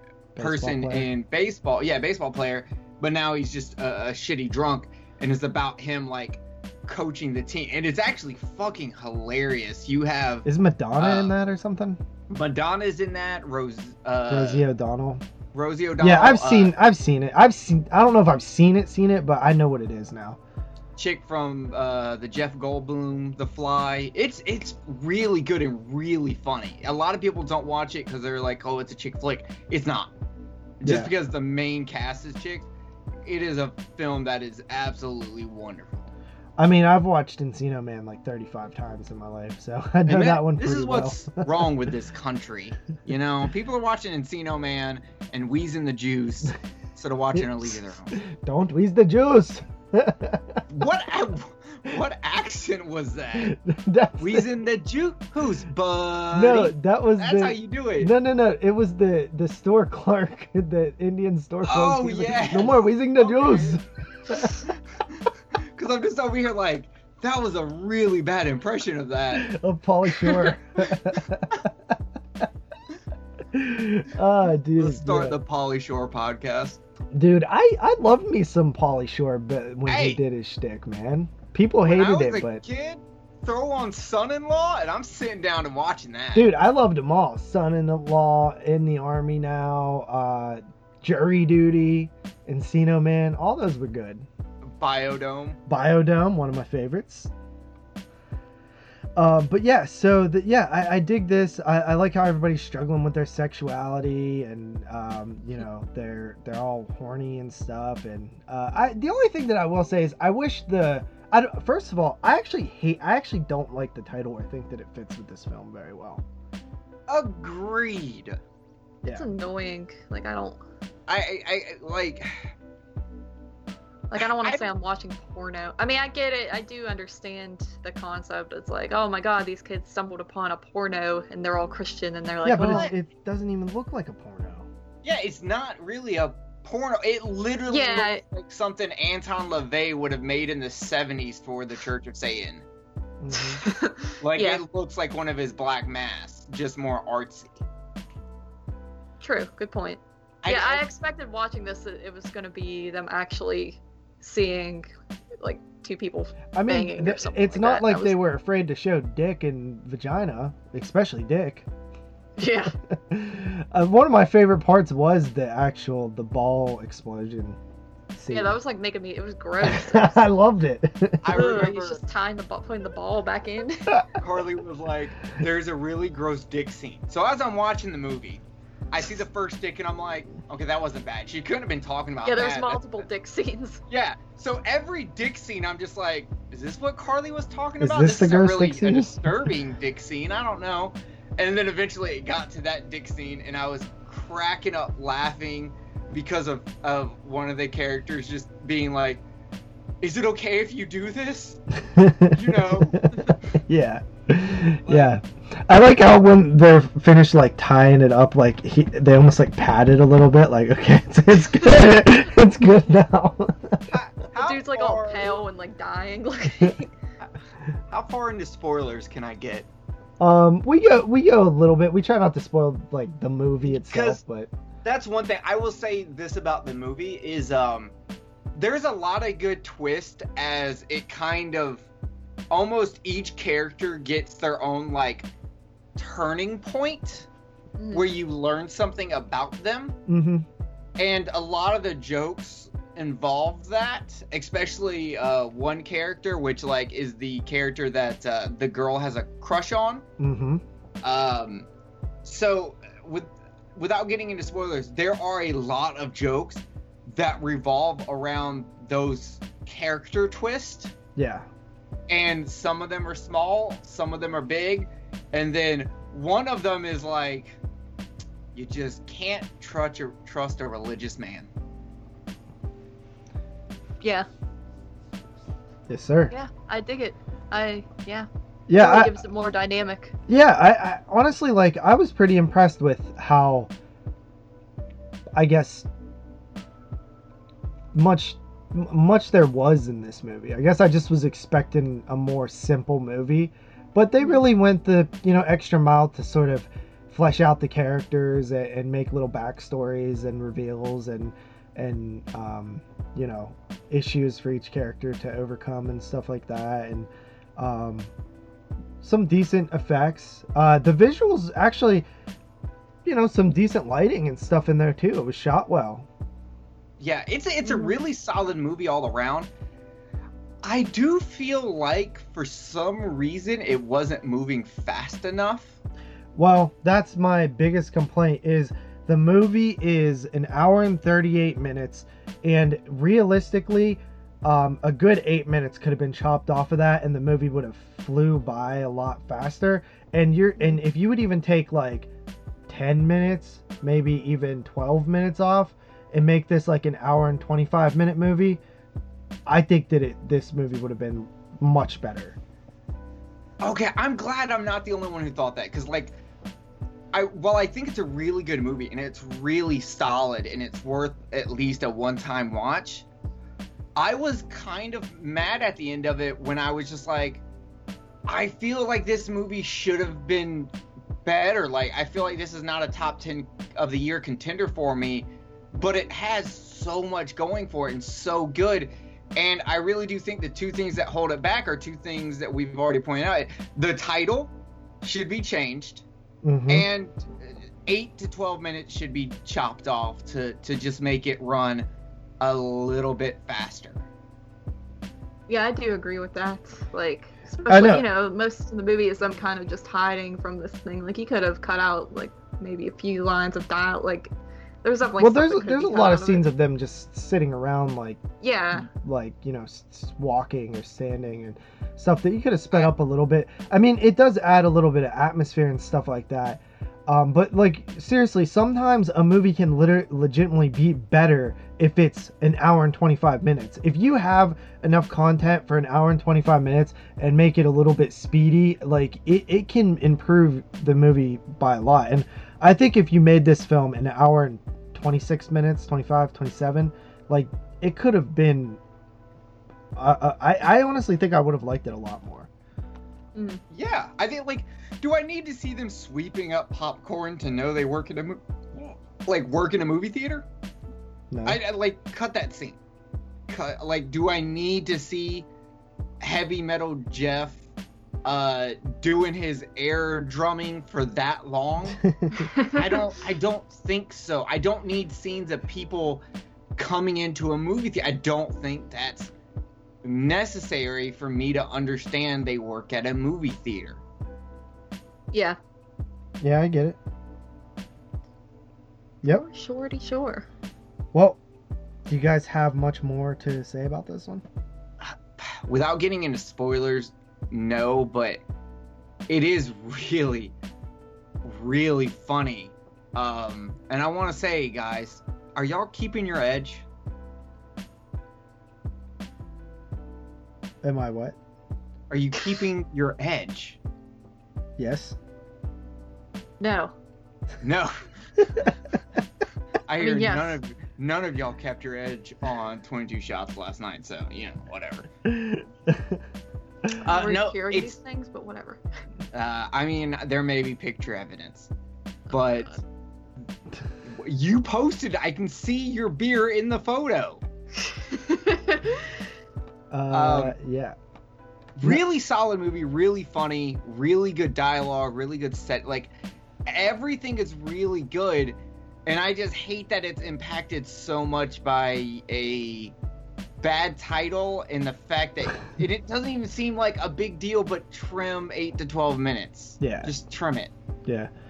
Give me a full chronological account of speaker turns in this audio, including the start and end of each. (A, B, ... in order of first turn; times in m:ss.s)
0:00.4-0:01.1 A
0:00.4-0:10.5 B
0:10.4-0:12.0 A
0:11.0-0:11.3 B
0:12.3-0:14.6 B
0:14.3-0:15.2 A
0:15.5-0:16.7 B
0:16.0-0:20.4 A
0:21.0-0:30.1 B
0:30.8-0:32.7 B
0:30.8-0:31.1 A
0:33.2-0:36.1 B
0:36.6-0:41.4 A
0:40.1-0:48.2 B
0:47.3-0:50.6 A
0:50.7-0:53.6 B
0:53.4-0:54.5 A
0:54.2-0:58.1 B
0:56.3-1:04.7 A
1:01.7-1:02.9 B
1:03.2-1:03.8 C
1:04.3-1:04.7 C
1:05.7-1:09.5 B
1:09.3-1:11.9 A
1:13.5-1:15.4 A
1:14.8-1:16.8 B
1:17.1-1:22.6 A
1:19.9-1:20.2 B
1:21.9-1:26.5 B
1:26.3-1:34.3 A
1:34.7-1:35.6 B
1:35.7-1:37.3 A
1:39.2-1:56.2 A
1:57.1-1:58.4 B
1:59.1-2:00.6 C
2:01.1-2:02.3 B
2:04.1-2:12.9 C
2:04.2-2:04.6 B
2:12.4-2:14.7 A
2:15.0-2:22.6 B
2:17.7-2:18.2 C
2:23.2-2:23.6 A
2:23.3-2:24.6 C
2:24.2-2:27.5 B
2:29.2-2:38.2 C
2:30.4-2:30.8 B
2:36.5-2:41.7 A
2:42.4-2:42.8 C
2:42.9-2:47.6 A
2:48.2-2:48.6 A
2:48.3-2:50.2 C
2:49.6-2:51.2 A
2:51.2-2:52.0 B
2:51.3-2:54.0 C
2:54.2-3:03.0 B
3:02.2-3:03.8 C
3:03.9-3:19.2 B
3:07.8-3:09.5 A
3:20.0-3:21.6 B
3:21.9-3:33.9 A
3:22.3-3:23.2 B
3:24.9-3:25.1 B
3:33.9-3:35.4 B
3:34.4-3:36.9 C
3:37.9-3:39.7 B
3:40.2-3:44.5 A
3:43.6-3:44.2 B
3:44.8-3:47.9 B
3:48.6-3:51.9 B
3:52.5-3:55.3 B
3:56.0-3:57.3 B
3:57.8-3:58.1 C
3:57.9-4:00.0 B
4:00.1-4:00.5 A
4:01.0-4:10.0 B
4:10.2-4:10.6 A
4:11.0-4:11.7 B
4:12.2-4:20.9 B
4:21.2-4:21.5 A
4:22.1-4:27.6 B
4:28.5-4:31.5 B
4:34.0-4:34.3 C
4:35.9-4:36.3 A
4:36.3-4:40.1 C
4:38.7-4:39.2 A
4:40.3-4:43.7 A
4:45.4-4:45.9 A
4:47.9-5:08.1 A
5:09.0-5:12.1 A
5:13.0-5:16.1 A
5:17.0-5:19.5 B
5:17.6-5:17.9 C
5:20.6-5:25.8 B
5:26.4-5:42.1 A
5:42.7-5:48.6 A
5:49.5-5:52.4 A
5:53.6-5:56.2 B
5:57.1-6:03.1 B
6:04.0-6:07.4 B
6:08.3-6:10.7 B
6:11.2-6:26.0 B
6:26.4-6:26.9 A
6:26.7-6:31.9 B
6:32.4-6:34.0 B
6:35.5-6:44.3 C
6:37.7-6:38.1 A
6:44.8-6:46.4 C
6:45.2-6:48.2 A
6:48.4-6:48.9 C
6:48.8-7:18.8 A
7:20.0-7:22.5 A
7:23.4-7:23.6 C
7:23.7-7:30.5 B
7:31.3-7:31.6 A
7:31.5-7:32.8 B
7:33.5-7:35.5 B
7:36.2-7:37.6 B
7:38.2-7:42.0 B
7:42.1-7:42.5 A
7:42.4-7:43.1 C
7:42.7-7:46.2 B
7:46.8-7:49.3 B
7:50.0-7:54.0 B
7:55.3-7:55.6 C
7:56.4-7:57.0 A
7:59.2-8:00.5 C
8:01.1-8:01.4 A
8:02.1-8:04.4 A
8:05.0-8:08.4 B
8:09.3-8:10.5 B
8:11.4-8:16.8 B
8:20.8-8:21.4 A
8:22.1-8:23.8 B
8:24.8-8:25.2 A
8:26.6-8:26.9 C
8:27.6-8:27.9 B
8:29.9-8:35.1 B
8:30.0-8:30.6 C
8:35.3-8:36.2 A
8:37.0-8:38.0 B
8:37.1-8:38.8 C
8:39.3-8:41.7 B
8:42.3-8:42.8 C
8:42.3-8:42.8 B
8:44.0-8:47.4 B
8:47.8-8:49.2 C
8:49.9-8:51.0 A
8:50.1-8:50.6 B
8:51.8-8:56.1 B
8:56.7-9:02.9 B
9:03.6-9:10.7 B
9:09.8-9:10.1 A